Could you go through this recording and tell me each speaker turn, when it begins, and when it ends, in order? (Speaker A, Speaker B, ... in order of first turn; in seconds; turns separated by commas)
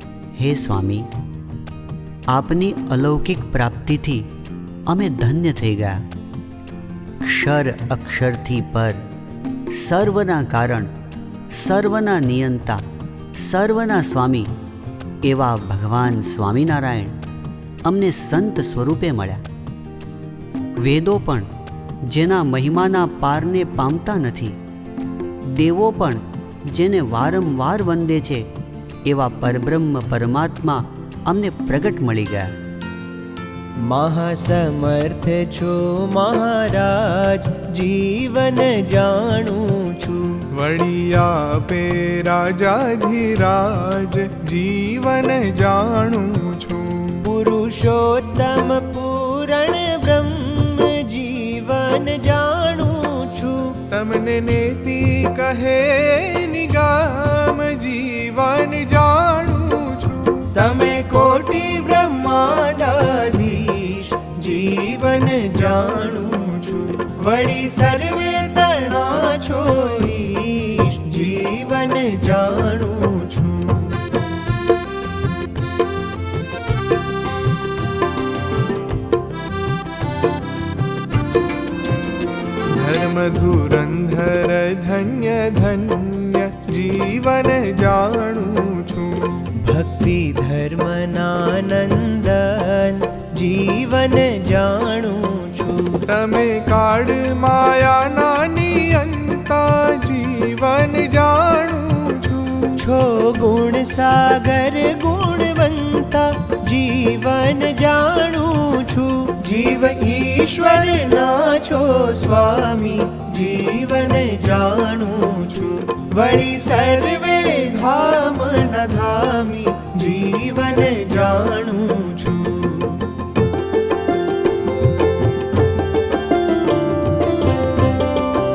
Speaker A: 0.3-1.1, Speaker A: 2.3-4.3, Speaker A: 4.9-6.0, Speaker A: 7.2-9.0, Speaker A: 9.7-10.9, Speaker A: 11.5-12.8, Speaker A: 13.3-14.5, Speaker A: 15.2-17.1, Speaker A: 17.8-19.4, Speaker A: 20.8-21.5, Speaker A: 22.1-24.6, Speaker A: 25.4-28.5, Speaker A: 29.1-32.5, Speaker B: 33.8-40.4, Speaker C: 40.5-47.2, Speaker B: 47.2-53.8, Speaker C: 53.9-60.5, Speaker B: 60.5-74.0, Speaker C: 82.7-89.5, Speaker B: 89.6-96.0, Speaker C: 96.1-102.8, Speaker B: 102.8-123.0